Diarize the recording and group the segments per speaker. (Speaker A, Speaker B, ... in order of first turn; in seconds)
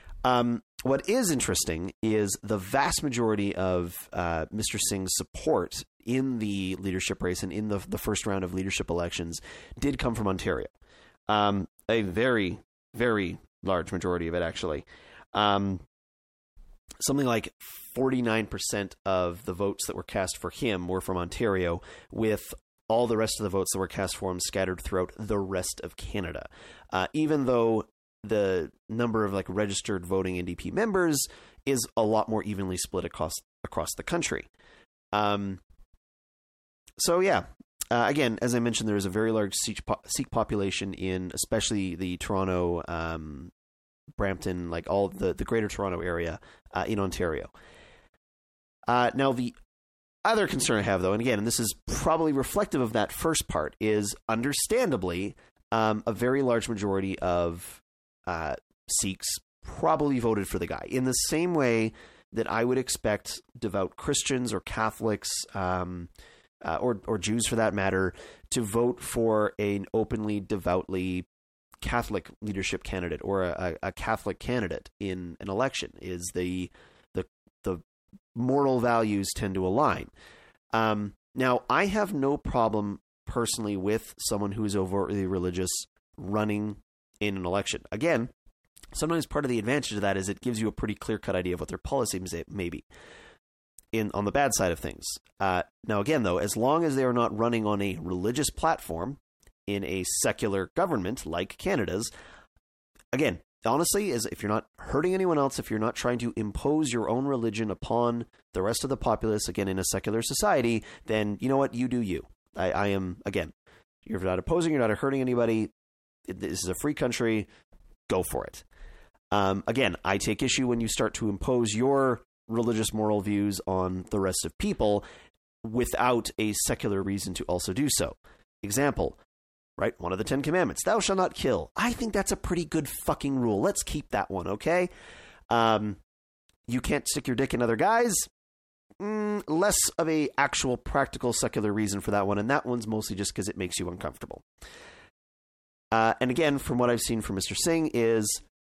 Speaker A: 0.2-10.7, 11.3-15.8, 17.0-34.5, 35.1-35.6, 37.0-43.5, 44.2-47.5, 48.9-49.5, 50.2-66.1, 66.6-71.3, 71.8-77.8, 78.3-80.1, 80.7-88.3, 88.9-92.9, 93.9-102.1, 103.1-113.5, 114.0-115.7, 116.3-117.5, 118.1-118.6, 119.3-125.0, 125.6-129.2, 129.8-134.9, 135.5-136.0, 136.7-138.3, 139.0-144.4, 145.9-148.4